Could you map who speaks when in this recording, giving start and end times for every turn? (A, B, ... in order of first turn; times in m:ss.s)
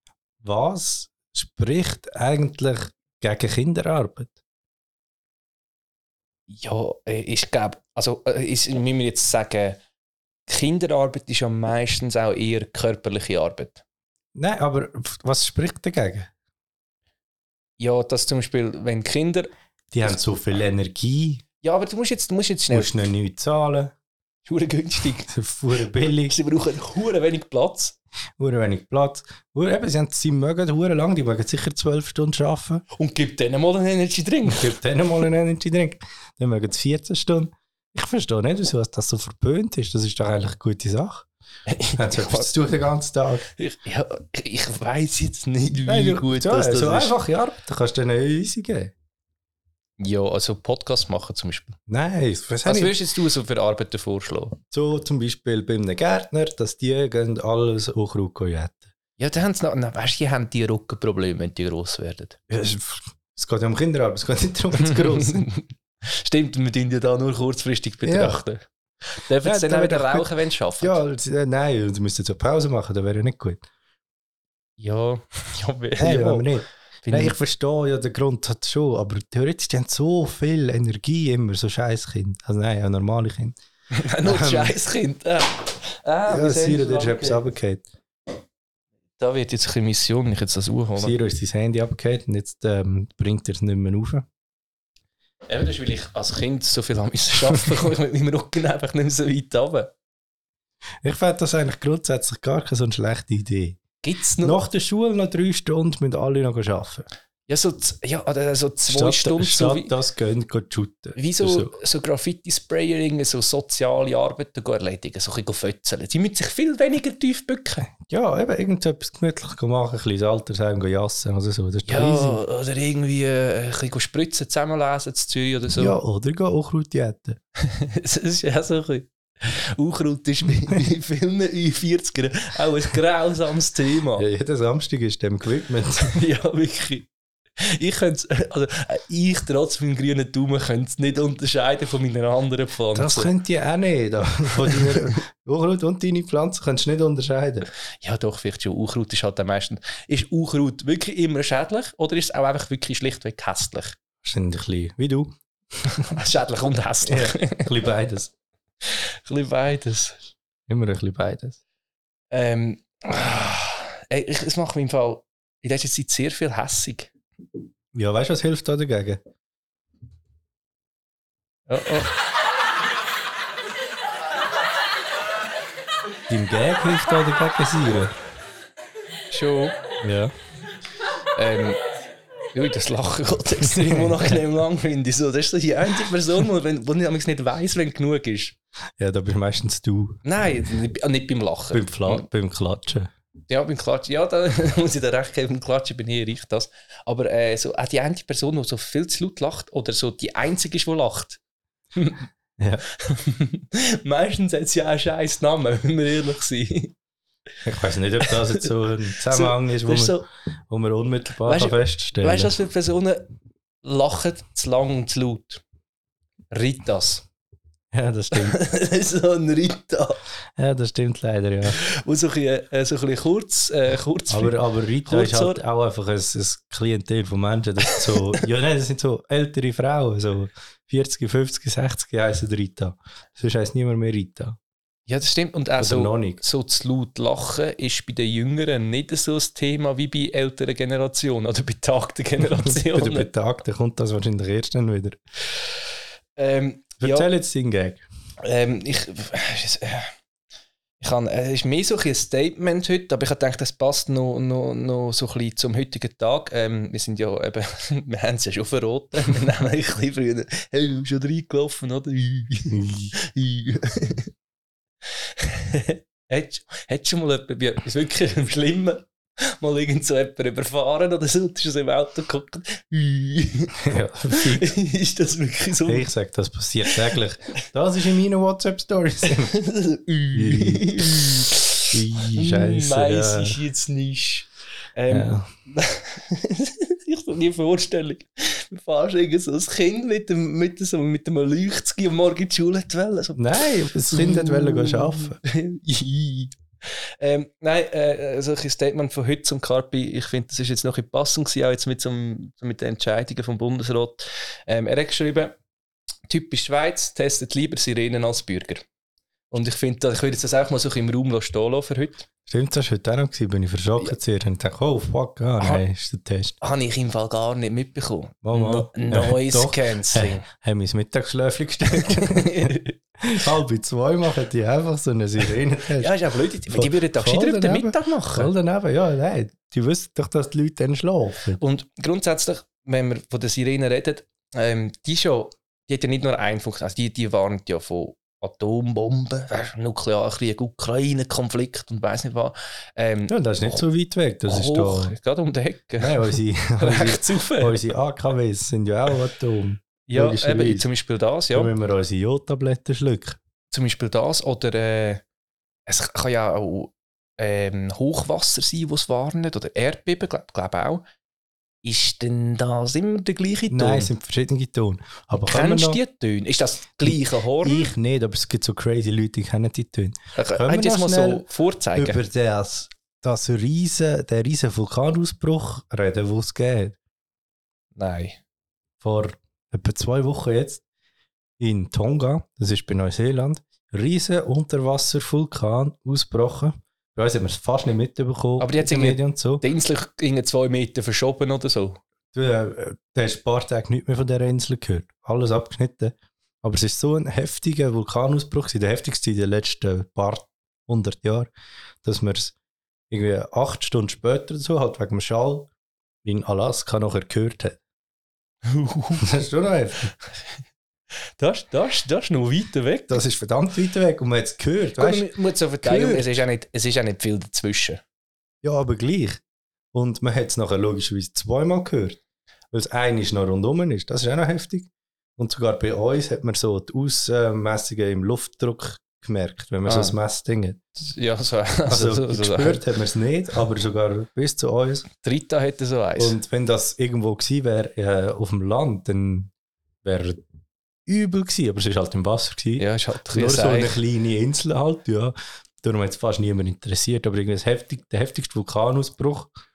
0:00.4-0:04.3 A
0:06.5-0:09.8 B
0:10.5-0:13.8 B
0:14.3-0:16.3 A
0:17.8-0:19.5 B
0:19.9-0:21.4 A
0:21.6-0:22.9 B
0:22.7-0:23.9 A
0:24.4-0:25.3 B
0:25.3-0:26.3 A
0:26.2-0:28.0 B
0:28.4-0:32.8 A
0:32.9-0:34.8 B
0:34.4-0:41.3 A
0:41.7-0:42.5 B
0:42.0-0:43.5 A
0:43.6-0:47.1 B
0:45.8-0:48.9 A
0:50.0-0:51.8 B
0:51.9-0:53.0 A
0:52.6-0:54.6 B
0:54.7-0:58.9 A
0:59.2-1:02.4 B
1:02.5-1:05.5 A
1:04.8-1:11.0 B
1:08.0-1:08.4 A
1:09.4-1:13.6 A
1:14.8-1:16.5 B
1:16.0-1:23.6 A
1:17.0-1:17.4 B
1:23.9-1:27.4 B
1:24.2-1:24.7 A
1:26.3-1:27.8 A
1:29.2-1:31.1 B
1:31.0-1:34.2 A
1:35.5-1:39.9 B
1:41.0-1:43.8 A
1:44.0-1:44.6 B
1:44.4-1:47.0 A
1:47.5-1:49.9 B
1:48.9-1:51.7 A
1:51.2-1:57.9 B
1:58.0-2:02.4 A
2:01.8-2:06.0 B
2:05.8-2:07.4 A
2:07.6-2:14.2 B
2:14.2-2:16.2 A
2:16.0-2:23.3 B
2:22.9-2:27.7 A
2:24.6-2:25.1 B
2:28.0-2:34.0 B
2:34.2-2:36.0 A
2:36.0-2:37.8 B
2:37.0-2:38.3 A
2:38.8-2:40.2 B
2:40.7-2:41.6 A
2:42.3-2:47.1 B
2:47.9-2:49.2 A
2:51.7-2:52.1 B
2:56.3-2:58.1 A
2:59.3-2:59.7 B
3:00.0-3:00.3 A
3:01.4-3:01.8 B
3:02.5-3:08.6 B
3:03.7-3:04.3 A
3:09.0-3:10.2 A
3:10.2-3:12.2 B
3:11.7-3:13.1 A
3:13.5-3:21.4 B
3:22.0-3:22.2 B
3:22.6-3:22.8 A
3:22.9-3:26.9 B
3:27.6-3:32.5 A
3:28.2-3:28.7 B
3:29.2-3:30.2 B
3:31.4-3:33.2 B
3:33.8-3:35.6 B
3:36.5-3:37.2 B
3:37.9-3:38.6 A
3:38.3-3:40.2 B
3:40.6-3:41.8 A
3:41.7-3:45.6 B
3:44.3-3:54.6 A
3:47.9-3:48.2 B
3:55.1-4:03.3 B
3:55.8-3:56.4 A
4:02.5-4:05.2 A
4:06.4-4:07.3 B
4:07.0-4:08.0 A
4:08.4-4:10.1 B
4:11.0-4:24.3 B
4:22.7-4:23.1 A
4:25.4-4:33.8 B
4:33.8-4:34.7 A
4:34.3-4:36.1 B
4:35.8-4:39.5 A
4:39.3-4:56.6 B
4:40.3-4:43.6 A
4:45.1-4:45.5 A
4:53.4-4:55.4 A
4:57.2-5:05.6 B
5:06.3-5:08.8 B
5:09.5-5:12.2 B
5:12.5-5:16.6 A
5:16.6-5:20.4 B
5:18.4-5:26.1 A
5:21.9-5:23.0 B
5:26.0-5:28.5 B
5:26.7-5:31.6 A
5:31.6-5:43.8 B
5:43.3-5:45.1 A
5:44.4-5:47.7 B
5:46.0-5:50.9 A
5:50.1-5:51.7 B
5:51.5-5:53.4 A
5:53.7-5:55.2 B
5:55.9-6:01.0 B
6:01.8-6:04.1 B
6:03.7-6:06.0 A
6:05.5-6:07.9 B
6:07.0-6:17.0 A
6:10.4-6:12.2 B
6:18.0-6:18.4 B
6:19.0-6:20.8 A
6:21.6-6:29.6 A
6:28.6-6:32.0 B
6:32.3-6:41.5 A
6:42.0-6:42.5 A
6:43.1-6:45.7 A
6:46.2-6:47.8 A
6:48.6-6:49.3 B
6:49.2-6:50.1 A
6:51.4-6:53.2 B
6:53.1-6:56.4 A
6:54.9-6:58.0 B
6:58.6-6:59.4 A
6:59.9-7:02.2 A
7:02.7-7:10.8 A
7:09.8-7:10.2 B
7:11.0-7:12.8 B
7:11.9-7:15.1 A
7:15.2-7:16.4 B
7:16.2-7:19.5 A
7:20.0-7:20.4 A
7:21.1-7:29.5 A
7:22.8-7:24.0 B